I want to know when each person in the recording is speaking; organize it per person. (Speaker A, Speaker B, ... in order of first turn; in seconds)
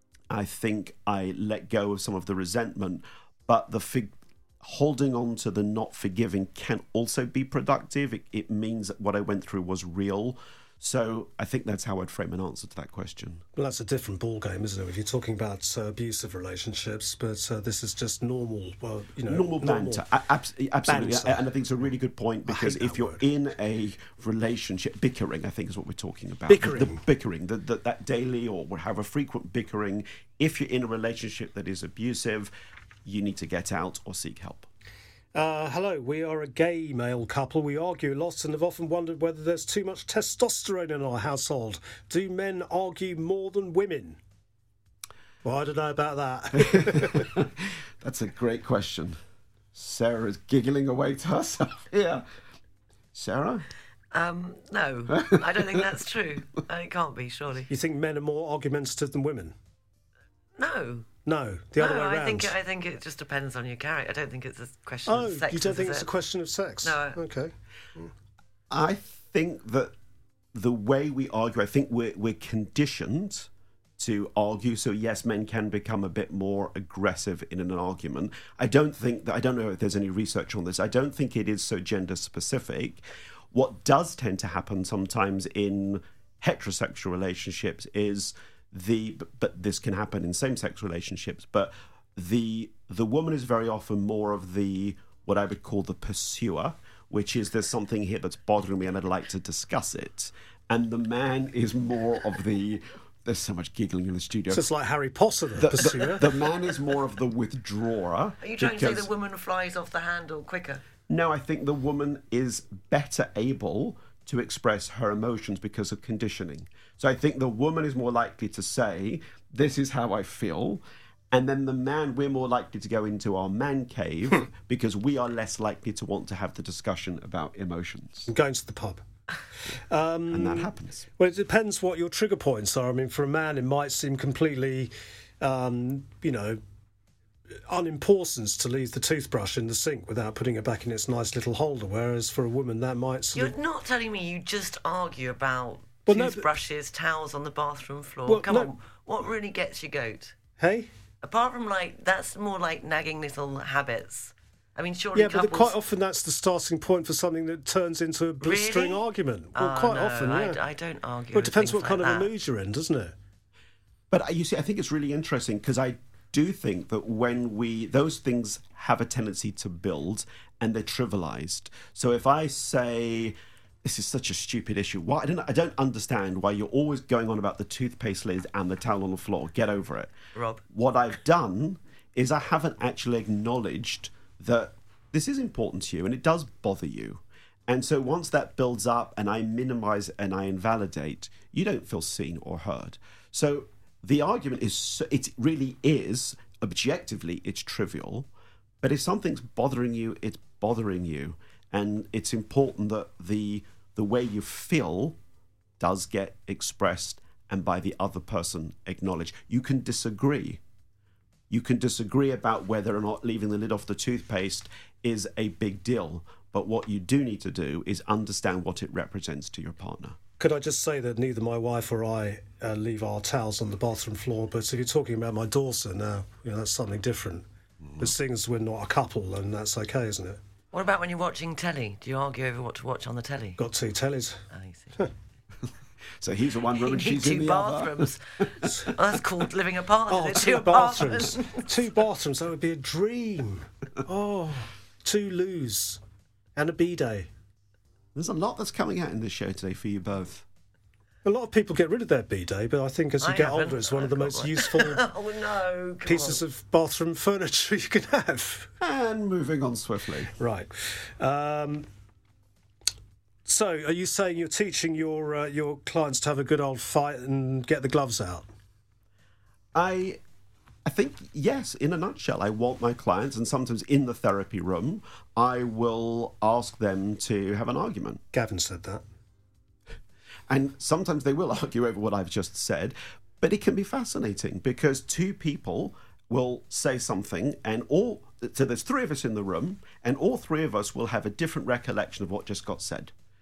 Speaker A: 0.3-13.4, 19.3-32.5, 33.0-34.7, 46.7-49.2, 49.7-52.2, 53.1-53.6, 55.1-55.6, 68.7-69.9, 70.5-104.6, 105.5-109.1, 111.1-128.3, 130.3-131.1, 164.1-180.1, 180.7-198.3, 198.8-205.2, 205.8-210.6, 211.5-220.2, 236.2-238.1, 248.1-250.4, 258.8-260.3, 269.7-270.2, 270.8-278.2, 280.5-293.1
Speaker B: 13.6-20.0, 20.9-21.4, 22.5-23.2, 26.5-27.0, 35.3-44.2, 45.4-47.3, 57.7-59.5, 61.2-62.5, 65.0-68.1, 104.5-106.2, 128.3-129.0, 129.7-136.6, 137.7-143.5, 146.1-146.5, 148.3-148.7, 150.6-150.9, 155.1-160.6, 161.3-163.1, 220.4-227.4, 228.0-230.4, 233.6-234.4, 240.1-246.0, 246.6-247.3, 251.2-255.0, 256.0-258.7, 260.4-261.9, 263.4-268.4, 278.3-279.0
Speaker C: 54.1-57.7, 60.6-61.1, 61.8-66.1, 66.8-67.2, 108.4-110.8, 143.3-150.3, 151.2-155.7, 158.4-162.3, 180.3-180.6, 230.7-233.6, 234.5-235.0, 236.7-241.7, 253.2-256.4